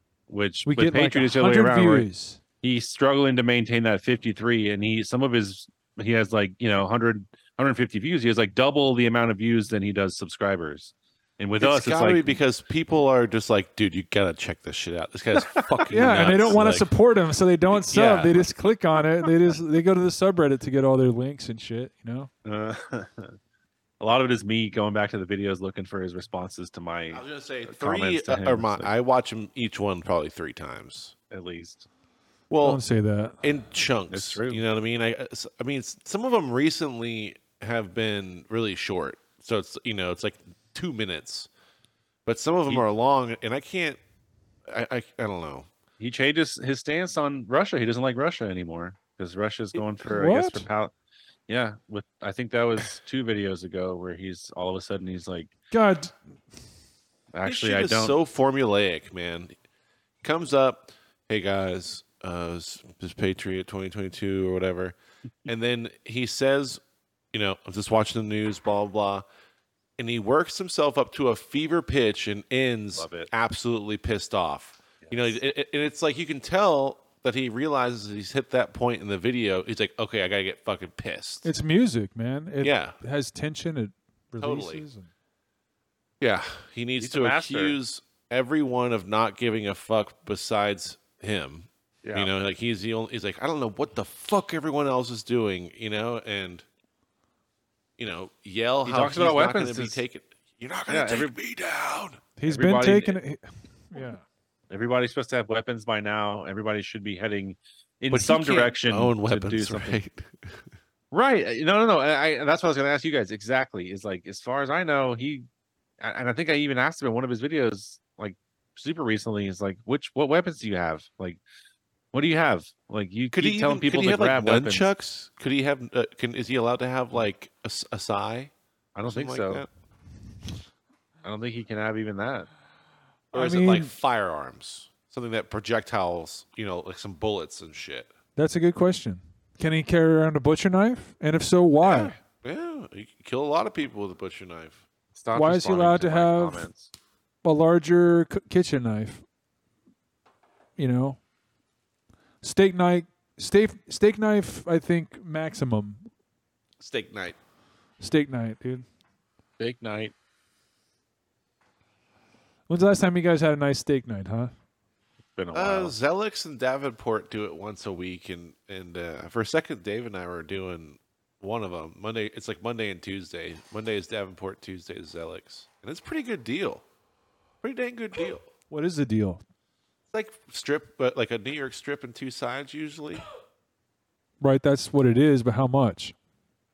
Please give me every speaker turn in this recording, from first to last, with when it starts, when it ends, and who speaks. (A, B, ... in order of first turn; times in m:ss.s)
0:00.3-0:02.1 A
0:00.6-0:02.4 B
0:02.6-0:12.4 A
0:11.6-0:16.9 C
0:15.9-0:22.3 B
0:17.8-0:18.4 A
0:22.4-0:23.4 A
0:24.0-0:28.9 A
0:27.1-0:31.1 C
0:31.3-0:31.9 A
0:32.5-0:32.8 C
0:32.6-0:33.5 B
0:33.4-0:41.5 C
0:34.1-0:34.6 A
0:42.2-0:44.0 C
0:44.7-0:45.7 C
0:46.0-0:50.9 A
0:50.0-0:50.7 B
0:51.5-0:55.5 A
0:55.7-0:56.1 B
0:57.3-0:58.2 A
0:57.4-0:59.5 C
1:00.2-1:04.9 C
1:05.4-1:06.8 C
1:07.3-1:09.2 C
1:10.0-1:21.5 C
1:13.0-1:13.3 A
1:15.0-1:15.4 A
1:21.4-1:25.1 B
1:22.6-1:22.9 C
1:24.4-1:24.8 C
1:26.2-1:36.6 C
1:27.0-1:27.8 A
1:32.0-1:32.3 A
1:38.0-1:42.2 C
1:38.8-1:40.0 A
1:40.9-1:41.3 A
1:42.4-1:44.2 B
1:42.4-1:43.2 A
1:44.7-1:50.0 A
1:48.1-1:50.7 C
1:51.1-1:55.5 A
1:56.0-2:01.4 A
2:02.1-2:04.9 A
2:03.3-2:08.5 C
2:08.9-2:09.6 A
2:09.1-2:09.7 C
2:11.2-2:12.5 A
2:13.3-2:13.9 B
2:13.3-2:18.1 C
2:18.4-2:22.2 B
2:21.8-2:24.8 C
2:25.1-2:26.9 A
2:25.3-2:26.7 B
2:27.4-2:29.2 B
2:30.8-2:31.2 B
2:32.4-2:36.0 B
2:36.8-2:37.4 C
2:38.0-2:38.8 B
2:39.6-2:40.1 A
2:42.7-2:44.5 B
2:45.3-2:46.0 A
2:45.5-2:56.8 C
2:57.6-2:58.5 C
2:58.7-2:59.4 B
3:00.1-3:03.2 C
3:04.4-3:06.1 B